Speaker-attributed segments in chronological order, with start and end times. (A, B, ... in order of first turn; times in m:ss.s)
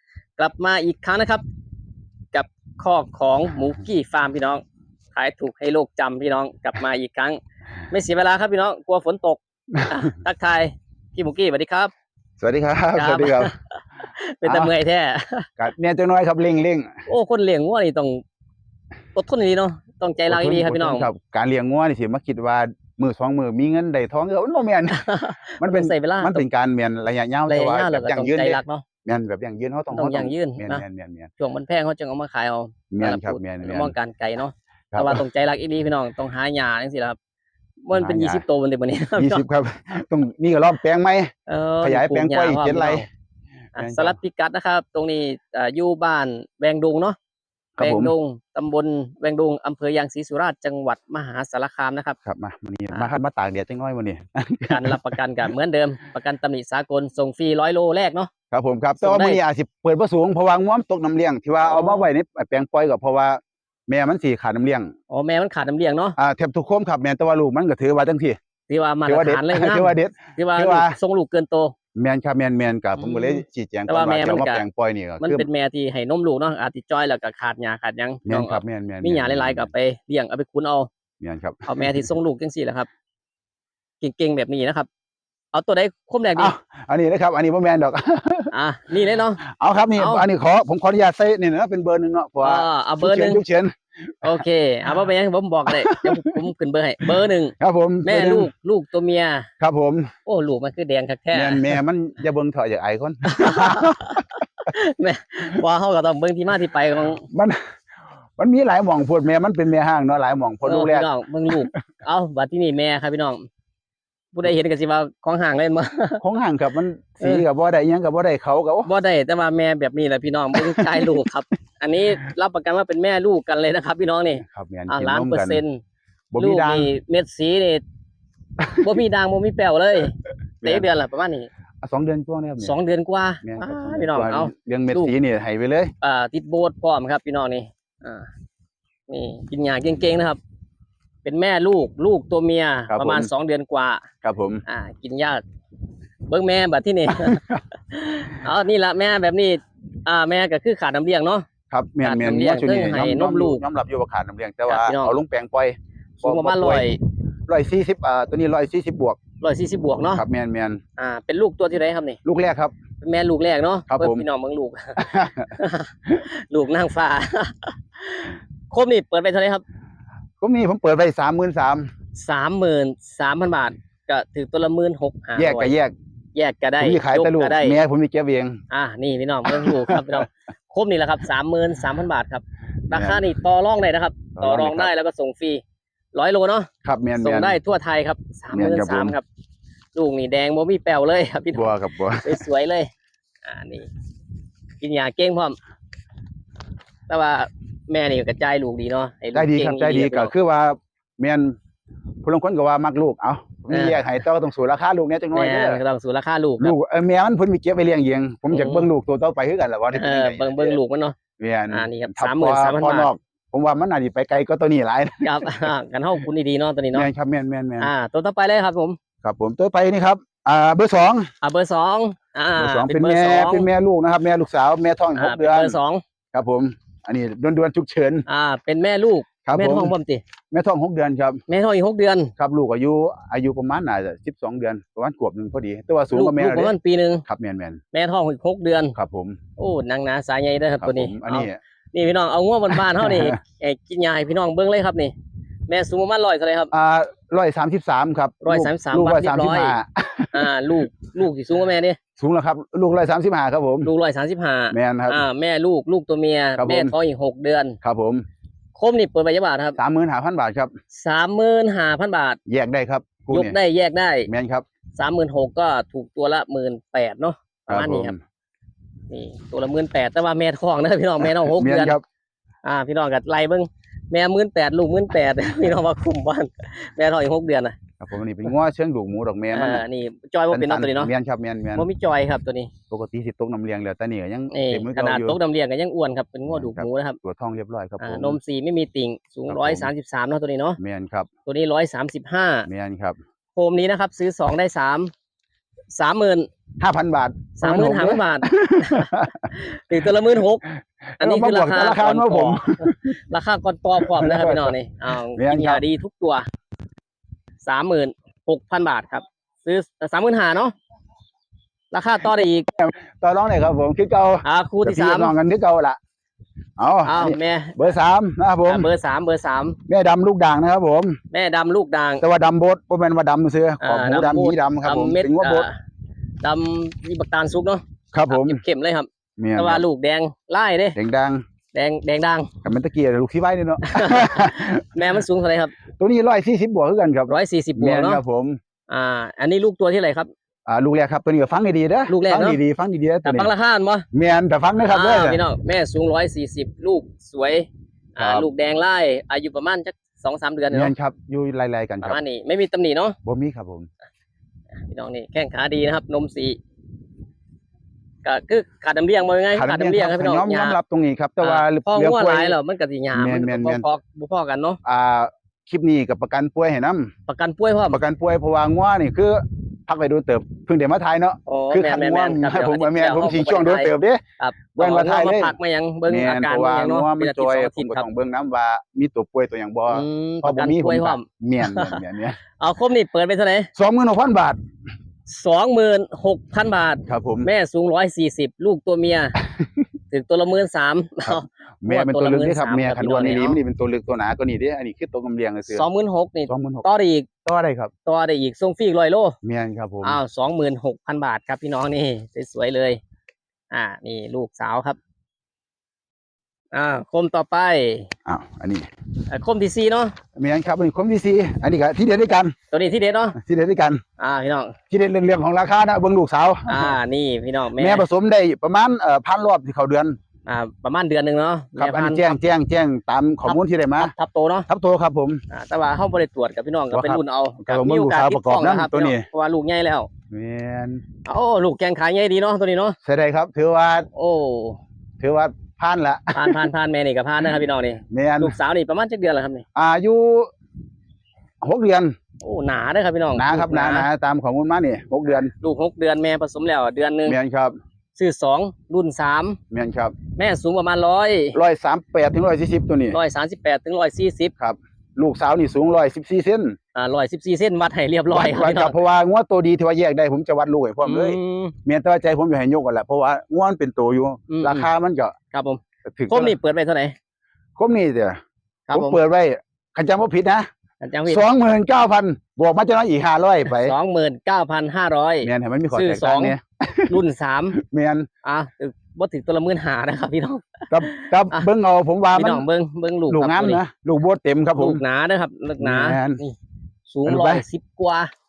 0:00.4-0:01.4 A
0:02.3-0:04.6 A
0:05.1-0:07.4 A
0:07.9-0:11.9 A
0:09.7-0:10.1 B
0:12.4-0:13.5 B
0:12.9-0:15.5 A
0:14.4-0:14.7 B
0:15.6-0:17.0 B
0:17.1-0:18.2 A
0:19.1-0:21.1 A
0:20.3-0:25.0 B
0:24.9-0:26.4 A
0:25.6-0:31.3 B
0:27.5-0:28.8 A
0:29.9-0:30.8 A
0:31.4-0:37.2 A
0:32.9-0:33.9 B
0:34.9-0:35.2 B
0:37.8-0:39.4 A
0:37.9-0:38.4 B
0:39.2-0:43.0 B
0:41.5-0:43.1 A
0:43.8-0:47.2 A
0:43.8-0:44.2 B
0:47.8-0:48.1 B
0:47.8-0:52.2 A
0:52.2-0:55.0 B
0:54.7-0:58.3 A
0:58.5-1:04.9 B
0:59.0-0:59.4 A
1:01.6-1:02.1 A
1:05.1-1:06.2 A
1:06.2-1:08.4 B
1:08.7-1:11.7 A
1:09.0-1:11.0 B
1:12.0-1:15.5 B
1:13.0-1:14.6 A
1:15.2-1:20.9 A
1:18.2-1:19.7 B
1:21.2-1:22.0 B
1:21.6-1:22.9 A
1:24.0-1:24.9 A
1:25.5-1:26.5 A
1:26.4-1:28.5 B
1:28.5-1:29.4 A
1:29.4-1:34.4 B
1:30.0-1:30.2 A
1:32.4-1:33.4 A
1:34.2-1:39.5 A
1:35.7-1:36.4 B
1:37.0-1:38.5 B
1:39.6-1:40.1 B
1:40.2-1:41.8 A
1:41.3-1:44.2 B
1:43.3-1:47.2 A
1:47.2-1:47.6 B
1:48.4-1:51.8 B
1:50.6-1:53.4 A
1:54.3-1:56.2 A
1:56.2-1:58.9 B
1:58.8-2:05.8 A
2:00.5-2:01.1 B
2:04.4-2:05.6 B
2:06.3-2:06.9 B
2:06.4-2:07.8 A
2:08.8-2:11.5 A
2:10.6-2:10.9 B
2:11.8-2:12.8 B
2:12.6-2:15.1 A
2:13.4-2:15.9 B
2:16.0-2:18.3 A
2:19.1-2:20.4 A
2:21.2-2:24.0 A
2:22.9-2:23.3 B
2:24.2-2:24.6 B
2:24.7-2:25.4 A
2:26.3-2:31.4 A
2:27.1-2:27.6 B
2:31.7-2:36.9 B
2:32.0-2:33.6 A
2:34.7-2:35.2 A
2:36.2-2:37.0 A
2:37.5-2:39.2 B
2:39.4-2:40.2 A
2:40.1-2:40.8 B
2:41.0-2:42.2 A
2:42.2-2:42.7 B
2:43.0-2:45.0 A
2:43.9-2:44.2 B
2:45.0-2:45.5 B
2:45.6-2:49.6 A
2:50.4-2:51.9 B
2:52.2-2:55.7 A
2:55.4-2:55.9 B
2:56.3-2:57.8 A
2:56.8-2:58.6 B
2:58.7-3:05.6 A
2:59.5-3:00.2 B
3:02.9-3:03.3 B
3:04.4-3:04.9 B
3:06.1-3:06.7 A
3:06.8-3:07.6 B
3:07.2-3:09.2 A
3:08.5-3:09.2 B
3:09.9-3:12.9 A
3:11.5-3:12.4 B
3:13.4-3:13.9 A
3:14.8-3:15.6 A
3:17.1-3:20.3 A
3:19.3-3:21.6 B
3:22.2-3:25.8 B
3:23.7-3:24.1 A
3:25.3-3:26.7 A
3:26.6-3:30.8 B
3:28.5-3:28.9 A
3:29.9-3:31.2 A
3:31.4-3:35.7 B
3:31.7-3:33.1 A
3:35.2-3:37.1 A
3:36.9-3:37.9 B
3:37.8-3:39.0 A
3:39.2-3:41.3 B
3:41.4-3:43.7 A
3:42.6-3:45.8 B
3:45.2-3:46.0 A
3:46.3-3:48.2 B
3:48.3-3:50.2 A
3:49.4-3:49.9 B
3:50.5-3:51.4 B
3:51.5-3:52.3 A
3:52.4-3:56.7 B
3:56.1-3:57.2 A
3:57.3-3:57.8 B
3:57.9-3:59.0 A
3:58.9-3:59.4 B
3:59.6-4:05.1 A
4:00.8-4:01.6 B
4:02.7-4:03.4 B
4:05.7-4:06.7 A
4:06.7-4:10.5 B
4:08.4-4:09.8 A
4:10.3-4:12.0 A
4:12.2-4:13.9 B
4:13.8-4:17.8 A
4:14.7-4:15.2 B
4:16.6-4:16.9 B
4:17.8-4:18.2 B
4:18.8-4:19.8 A
4:19.8-4:20.7 B
4:20.9-4:22.4 A
4:22.5-4:23.6 B
4:23.3-4:24.3 A
4:24.3-4:24.6 B
4:25.0-4:28.1 A
4:27.7-4:28.2 B
4:29.1-4:32.0 A
4:31.4-4:32.0 B
4:32.6-4:37.8 A
4:38.0-4:39.8 B
4:39.5-4:41.1 A
4:40.5-4:41.9 B
4:41.7-4:42.7 A
4:42.9-4:45.4 B
4:44.5-4:47.2 A
4:46.5-4:48.4 B
4:48.0-4:50.8 A
4:49.5-4:49.9 B
4:50.8-4:51.3 B
4:51.4-4:52.7 A
4:52.7-4:53.2 B
4:53.5-4:55.1 A
4:55.9-4:56.5 A
4:56.8-4:59.5 B
4:57.6-5:00.6 A
5:01.2-5:03.1 B
5:01.2-5:06.5 A
5:04.0-5:04.7 B
5:05.3-5:05.8 B
5:07.6-5:10.7 A
5:11.9-5:12.7 A
5:12.7-5:16.0 B
5:14.4-5:15.3 A
5:16.8-5:18.9 B
5:17.0-5:17.8 A
5:18.6-5:19.8 A
5:19.9-5:21.2 B
5:21.3-5:22.2 A
5:22.2-5:25.7 B
5:23.8-5:25.7 A
5:26.4-5:31.0 A
5:28.1-5:28.6 B
5:29.4-5:29.8 B
5:31.0-5:31.4 B
5:31.7-5:32.5 A
5:32.6-5:35.0 B
5:33.8-5:35.7 A
5:36.0-5:38.6 B
5:37.3-5:38.2 A
5:38.9-5:40.3 A
5:40.7-5:43.5 B
5:42.1-5:42.6 A
5:43.2-5:44.0 A
5:44.1-5:45.4 B
5:44.8-5:50.9 A
5:48.2-5:48.5 B
5:50.7-5:52.2 B
5:52.0-5:53.2 A
5:53.2-5:53.9 B
5:54.8-5:56.6 A
5:58.2-6:00.8 A
5:59.5-6:02.6 B
6:01.4-6:04.8 A
6:03.1-6:03.9 B
6:04.8-6:07.1 B
6:07.3-6:08.0 A
6:07.9-6:14.2 B
6:11.5-6:18.1 A
6:14.7-6:22.4 B
6:19.9-6:22.0 A
6:22.6-6:23.7 A
6:23.8-6:24.6 B
6:25.3-6:29.4 A
6:27.1-6:27.5 B
6:30.1-6:33.6 A
6:31.2-6:35.8 B
6:35.7-6:37.3 A
6:36.5-6:36.8 B
6:37.4-6:37.9 B
6:38.0-6:39.4 A
6:39.4-6:40.2 B
6:40.0-6:43.0 A
6:43.7-6:45.0 A
6:46.7-6:48.1 A
6:48.2-6:48.9 B
6:49.3-6:50.1 A
6:50.4-6:52.5 B
6:52.7-6:53.4 A
6:53.4-6:54.0 B
6:54.2-6:54.7 A
6:54.9-6:57.0 B
6:56.7-6:58.0 A
6:57.8-7:00.2 B
7:00.4-7:02.4 A
7:01.8-7:04.1 B
7:03.4-7:04.7 A
7:04.7-7:05.4 B
7:05.5-7:10.1 A
7:06.9-7:09.2 B
7:10.3-7:11.0 B
7:11.2-7:13.0 A
7:13.0-7:14.1 B
7:14.1-7:14.8 A
7:15.2-7:16.6 B
7:16.3-7:19.6 A
7:18.1-7:18.6 B
7:19.8-7:20.5 B
7:21.6-7:22.1 B
7:22.4-7:24.1 A
7:23.3-7:25.5 B
7:25.3-7:27.4 A
7:27.2-7:27.7 B
7:28.1-7:29.6 A
7:29.7-7:30.2 B
7:30.3-7:31.6 A
7:31.5-7:33.2 B
7:33.1-7:34.5 A
7:34.6-7:36.8 B
7:36.9-7:39.0 A
7:38.3-7:45.3 B
7:41.0-7:41.7 A
7:44.5-7:44.9 A
7:45.5-7:47.1 A
7:46.1-7:46.6 B
7:47.8-7:48.4 B
7:48.9-7:49.2 A
7:48.9-7:50.6 B
7:51.0-7:51.4 A
7:51.3-7:53.9 B
7:53.7-7:56.6 A
7:55.4-7:57.2 B
7:57.1-7:57.8 A
7:57.8-7:58.3 B
7:58.4-8:01.7 A
8:00.9-8:02.7 B
8:02.3-8:03.8 A
8:03.3-8:05.0 B
8:04.8-8:06.6 A
8:05.8-8:06.4 B
8:07.1-8:08.3 A
8:07.2-8:07.6 B